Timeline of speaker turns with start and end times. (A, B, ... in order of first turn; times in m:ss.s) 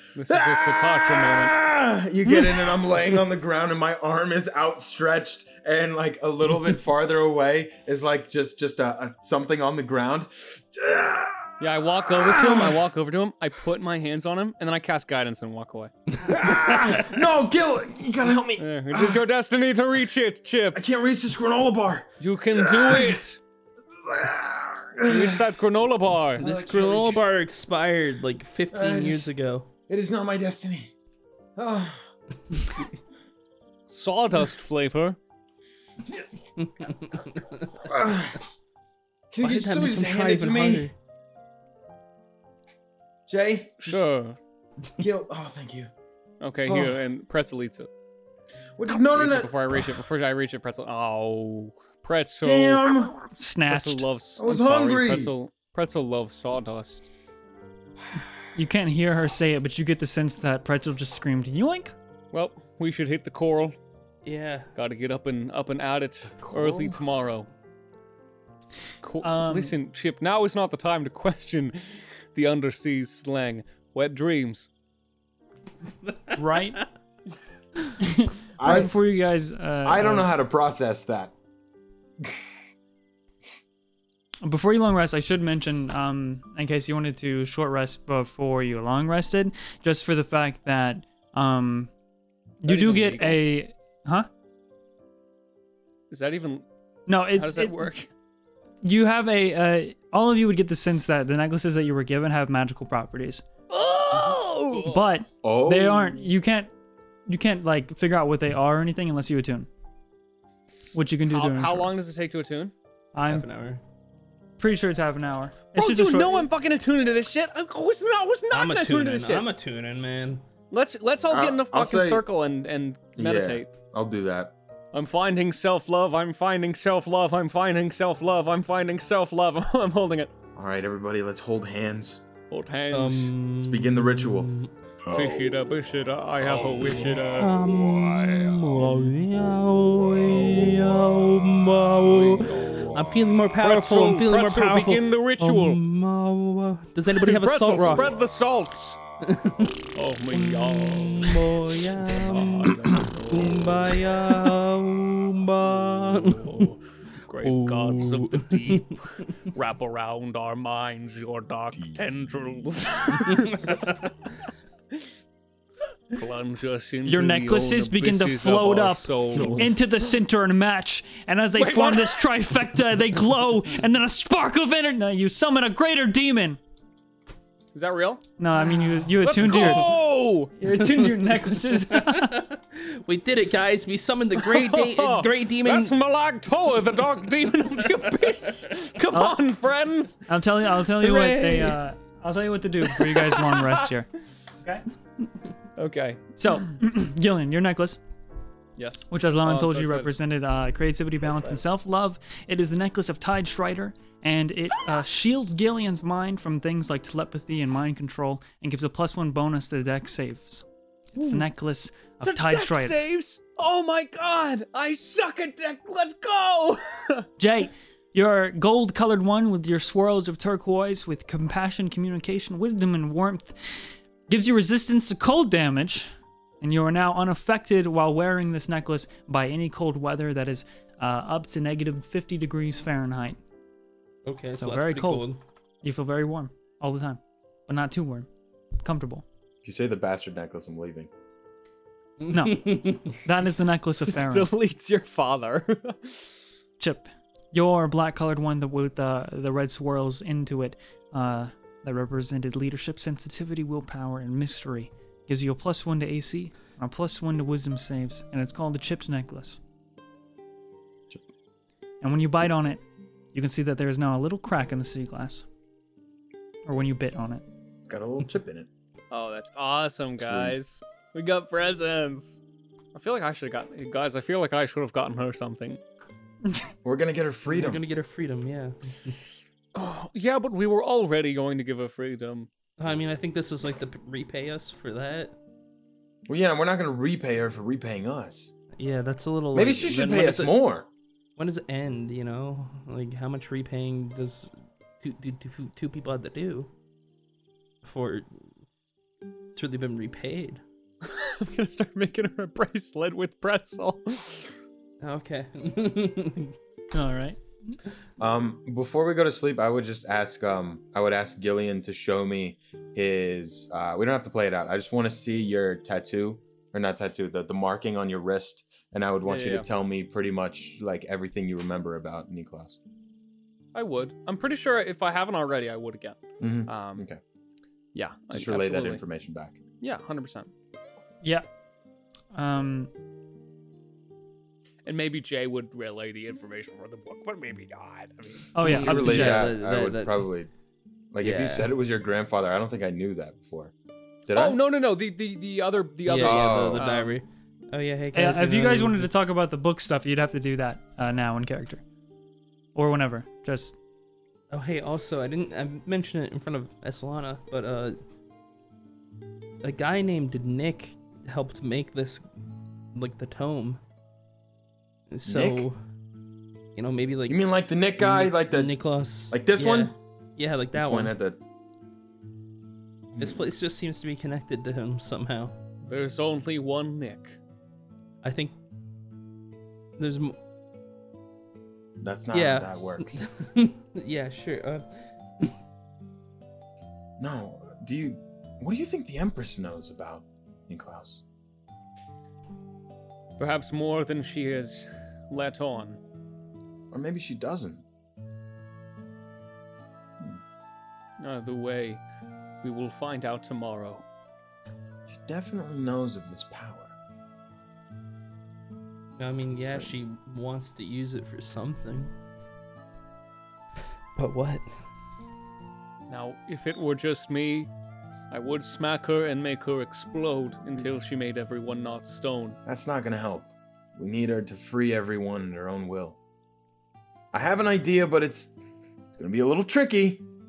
0:00.1-0:01.5 A
0:00.3-0:12.8 B
0:11.6-0:15.9 A
0:16.1-0:17.1 C
0:16.3-0:19.2 B
0:18.6-0:20.8 A
0:20.7-0:23.2 B
0:22.2-0:23.4 A
0:24.0-0:25.4 B
0:25.0-0:26.4 A
0:26.4-0:29.7 C
0:26.4-0:27.2 B
0:28.7-0:29.3 B
0:29.9-0:30.9 B
0:31.6-0:32.1 B
0:33.9-0:35.2 A
0:36.6-0:37.8 C
0:37.8-0:38.4 B
0:39.3-0:40.9 B
0:39.4-0:40.9 C
0:43.3-0:44.0 B
0:43.8-0:44.4 A
0:45.0-0:45.9 B
0:46.4-0:47.9 A
0:46.6-0:47.0 B
0:48.8-0:49.8 B
0:48.9-0:52.9 A
0:52.4-0:53.2 B
0:53.4-0:54.0 D
0:53.7-0:57.1 A
0:54.4-0:55.3 B
0:58.5-1:01.9 D
1:02.3-1:03.8 A
1:04.2-1:04.7 C
1:04.8-1:07.5 A
1:06.4-1:07.0 B
1:09.0-1:14.7 A
1:09.2-1:09.7 D
1:16.1-1:16.3 C
1:16.3-1:16.8 D
1:18.0-1:20.3 D
1:18.6-1:18.9 B
1:19.8-1:21.3 B
1:24.4-1:31.9 D
1:32.6-1:34.3 D
1:32.6-1:33.4 A
1:36.1-1:36.6 A
1:37.1-1:37.8 D
1:37.3-1:38.1 A
1:38.8-1:43.4 D
1:43.7-1:44.9 A
1:44.7-1:45.0 C
1:44.7-1:46.7 D
1:45.4-1:46.2 B
1:47.3-1:49.7 D
1:50.9-1:52.0 D
1:51.3-1:52.7 A
1:53.1-1:53.5 D
1:53.2-1:53.8 C
1:54.6-1:56.5 D
1:55.8-1:59.4 A
1:58.5-2:00.4 C
2:00.7-2:03.7 A
2:01.3-2:02.2 B
2:03.2-2:04.5 B
2:04.9-2:10.3 A
2:10.6-2:12.2 B
2:12.5-2:13.3 A
2:12.9-2:14.7 C
2:13.6-2:14.5 B
2:15.1-2:17.5 A
2:17.3-2:28.1 C
2:22.1-2:22.9 A
2:23.6-2:25.8 A
2:27.2-2:29.0 A
2:29.2-2:29.7 C
2:29.9-2:31.5 A
2:30.3-2:36.6 C
2:32.1-2:33.7 A
2:36.4-2:43.9 A
2:37.4-2:38.9 C
2:46.1-2:49.7 A
2:47.0-2:56.6 D
2:51.6-2:52.2 A
2:57.7-2:58.2 A
2:58.4-2:59.9 D
2:59.2-3:00.5 A
2:59.4-2:59.7 C
3:00.6-3:02.4 D
3:00.7-3:05.9 C
3:04.4-3:10.2 A
3:07.8-3:08.6 C
3:10.3-3:14.1 D
3:11.0-3:11.8 C
3:15.8-3:16.2 A
3:16.4-3:18.0 D
3:18.8-3:20.1 A
3:19.1-3:33.0 D
3:21.3-3:21.6 A
3:32.2-3:37.3 A
3:37.4-3:53.4 D
3:54.2-3:55.4 C
3:54.6-3:55.3 D
3:55.8-3:58.3 D
3:58.8-3:59.2 D
3:59.6-4:01.1 B
4:02.2-4:03.2 C
4:02.3-4:04.5 D
4:04.2-4:06.4 A
4:06.8-4:19.6 D
4:22.0-4:22.8 D
4:23.3-4:25.4 D
4:26.6-4:27.4 D
4:27.8-4:28.7 B
4:29.1-4:32.4 A
4:30.2-4:30.6 B
4:32.9-4:35.8 A
4:36.8-4:37.8 B
4:37.5-4:39.2 C
4:39.7-4:42.5 A
4:42.8-4:45.3 C
4:46.3-4:48.5 B
4:48.8-4:50.5 C
4:49.5-4:50.9 B
4:51.4-4:56.7 C
4:57.8-4:58.3 C
4:59.5-5:00.6 C
5:01.0-5:04.5 A
5:05.0-5:06.5 C
5:06.9-5:07.4 D
5:08.2-5:22.8 B
5:19.2-5:19.7 A
5:23.7-5:27.0 A
5:26.4-5:27.2 B
5:27.9-5:29.0 A
5:28.3-5:29.6 B
5:29.8-5:30.5 A
5:31.2-5:31.5 D
5:32.3-5:32.9 D
5:34.8-5:38.6 A
5:38.5-5:39.5 D
5:38.6-5:40.2 C
5:38.6-5:40.5 B
5:41.1-5:43.7 B
5:41.2-5:41.7 C
5:44.3-5:44.6 B
5:44.3-5:47.1 A
5:46.0-5:49.1 C
5:46.2-5:46.9 B
5:48.1-5:51.8 D
5:52.7-5:53.8 D
5:54.5-5:58.0 C
5:59.6-6:02.2 C
6:02.9-6:03.8 C
6:05.1-6:05.8 C
6:05.2-6:05.7 B
6:06.8-6:07.4 C
6:07.3-6:08.7 B
6:08.0-6:11.1 C
6:09.3-6:09.9 B
6:10.7-6:11.4 B
6:13.1-6:13.4 B
6:13.2-6:15.5 C
6:15.8-6:17.4 A
6:18.2-6:18.5 C
6:20.0-6:20.4 C
6:22.0-6:23.2 B
6:22.3-6:24.9 C
6:27.2-6:31.2 B
6:33.4-6:36.0 A
6:36.9-6:37.8 B
6:41.2-6:42.0 A
6:42.6-6:44.0 A
6:45.1-6:46.9 B
6:49.2-6:52.1 C
6:49.5-6:49.9 B
6:54.2-6:54.7 C
6:56.1-6:57.7 A
6:58.3-7:02.6 A
7:02.6-7:06.2 B
7:07.3-7:08.6 B
7:09.2-7:10.2 B